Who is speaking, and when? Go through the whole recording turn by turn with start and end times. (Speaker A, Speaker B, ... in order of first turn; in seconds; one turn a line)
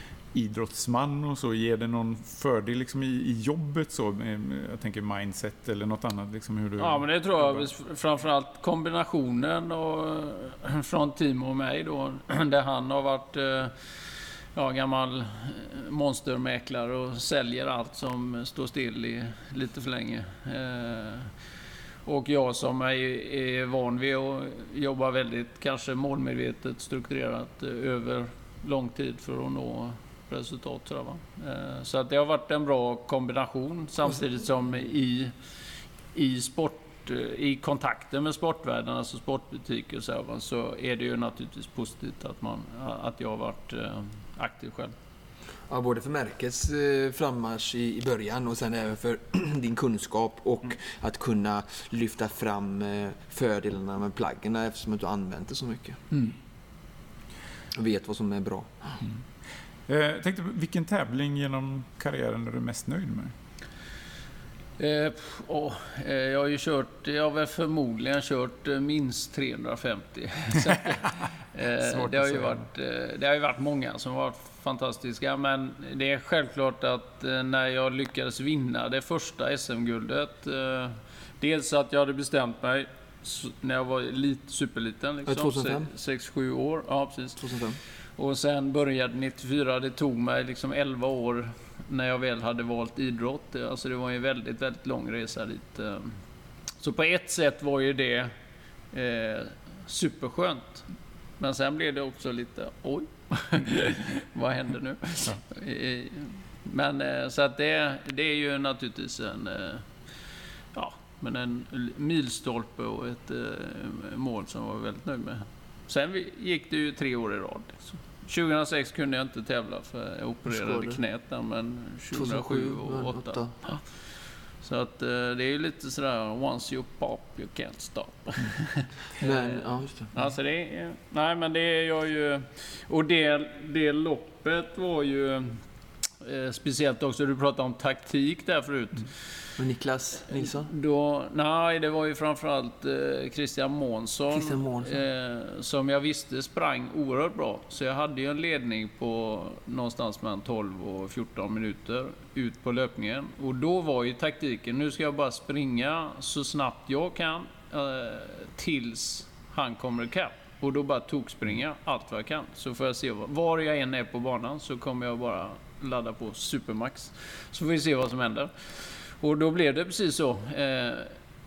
Speaker A: 0.3-7.7
Speaker B: 6.8-13.8
Speaker B: 14.5-21.3
Speaker B: 22.0-35.3
Speaker B: 36.1-44.9
Speaker C: 45.7-56.0
Speaker C: 57.7-59.0
Speaker A: 59.9-63.3
Speaker B: 64.8-87.4
Speaker A: 71.8-72.6
Speaker C: 85.3-85.9
Speaker C: 87.4-87.8
Speaker B: 88.2-96.2
Speaker B: 96.8-98.3
Speaker B: 98.9-100.8
Speaker B: 101.4-109.9
Speaker B: 110.7-123.9
Speaker C: 120.5-121.0
Speaker C: 122.1-123.6
Speaker B: 124.6-135.6
Speaker C: 129.2-130.1
Speaker B: 136.2-139.2
Speaker C: 139.6-140.7
Speaker B: 140.3-171.2
Speaker C: 144.3-145.0